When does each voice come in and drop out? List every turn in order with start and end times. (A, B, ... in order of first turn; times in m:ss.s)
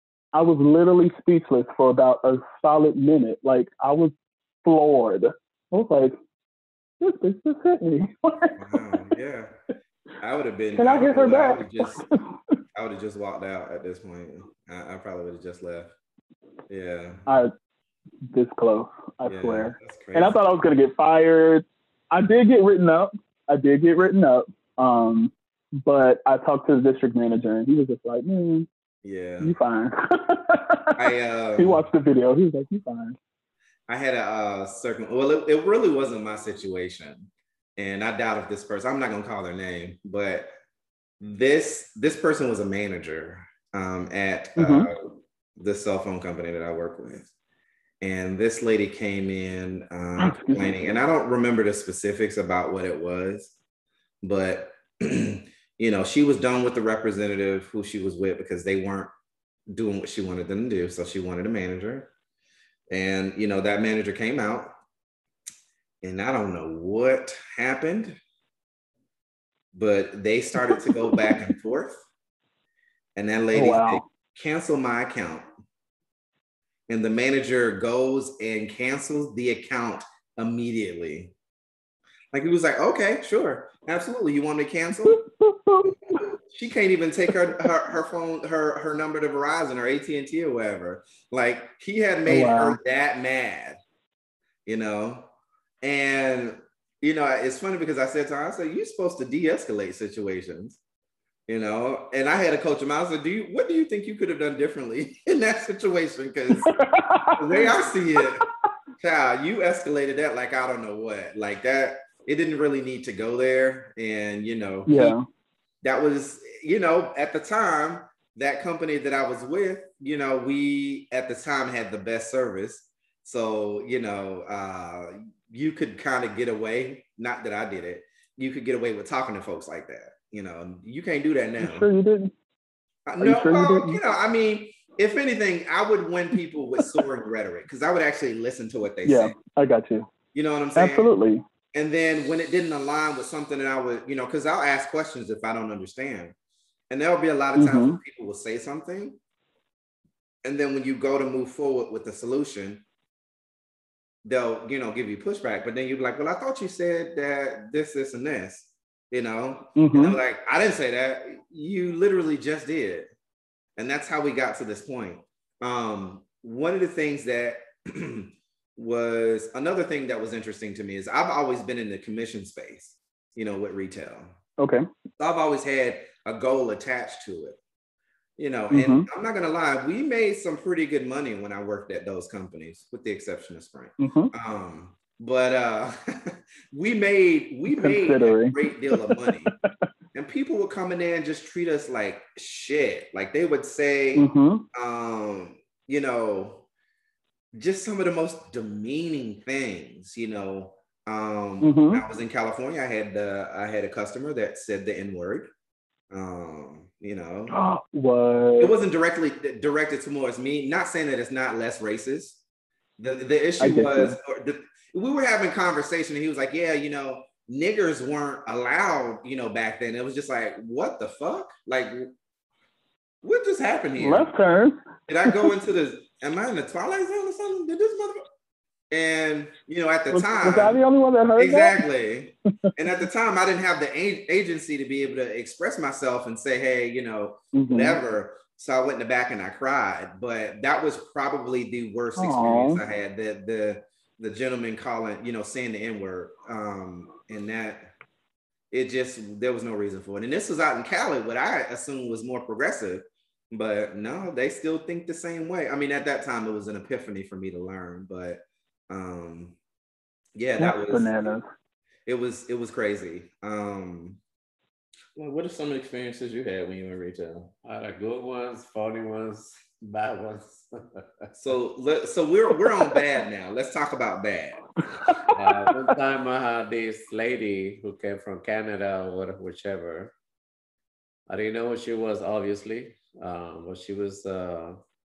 0:00.3-0:06.2 A
0:07.0-0:09.0 A
0:08.6-0:09.5 B
0:10.2-0:12.0 B
0:10.7-0:12.2 A
0:12.7-0:15.9 B
0:16.7-0:17.2 B
0:17.2-0:17.5 A
0:18.3-0:28.7 A
0:19.2-0:20.4 B
0:29.0-0:29.5 B
0:29.4-0:31.0 A
0:31.0-0:31.8 B
0:31.6-0:33.2 A
0:33.9-0:40.5 B
0:41.2-0:45.0 B
0:44.6-0:44.9 A
0:45.6-0:47.3 B
0:48.0-0:53.5 B
0:50.2-0:50.8 A
0:54.2-0:59.1 B
0:59.7-1:02.1 B
1:02.9-1:04.7 B
1:06.0-1:08.2 B
1:09.7-1:12.0 B
1:10.9-1:11.3 A
1:13.2-1:15.5 B
1:13.5-1:14.0 A
1:16.9-1:21.3 B
1:22.3-1:25.2 B
1:25.1-1:26.2 A
1:25.8-1:33.8 B
1:32.3-1:32.8 A
1:34.6-1:35.3 B
1:35.8-1:40.8 B
1:41.5-1:46.7 B
1:46.5-1:47.7 A
1:47.4-1:48.4 B
1:49.0-1:55.2 B
1:54.9-1:55.2 A
1:55.8-2:11.9 B
2:11.6-2:12.3 A
2:13.0-2:19.3 B
2:13.2-2:14.0 A
2:19.0-2:20.1 A
2:20.3-2:21.1 B
2:20.8-2:21.4 A
2:21.7-2:26.3 B
2:26.9-2:29.2 B
2:27.6-2:28.0 A
2:30.4-2:32.8 B
2:34.2-2:43.1 B
2:39.8-2:40.2 A
2:43.8-2:54.3 B
2:54.6-2:54.8 A
2:55.2-2:57.6 B
2:58.4-3:09.5 B
2:58.7-2:59.1 A
3:04.0-3:04.3 A
3:07.7-3:08.5 A
3:10.1-3:16.6 B
3:14.1-3:14.6 A
3:17.5-3:25.5 B
3:21.6-3:22.0 A
3:26.1-3:27.5 B
3:27.5-3:28.7 A
3:28.6-3:32.4 B
3:33.0-3:42.1 B
3:33.6-3:34.2 A
3:43.2-3:44.3 B
3:44.0-3:45.5 A
3:45.1-3:48.2 B
3:48.9-3:50.8 B
3:50.1-3:51.8 A
3:51.4-4:07.9 B
3:57.5-3:58.0 A
4:02.2-4:02.8 A
4:08.7-4:19.6 B
4:20.3-4:21.3 B
4:20.6-4:21.4 A
4:22.0-4:24.2 B
4:25.1-4:27.5 B
4:27.6-4:31.3 C
4:31.3-4:34.6 B
4:35.3-4:40.1 C
4:41.3-4:44.8 C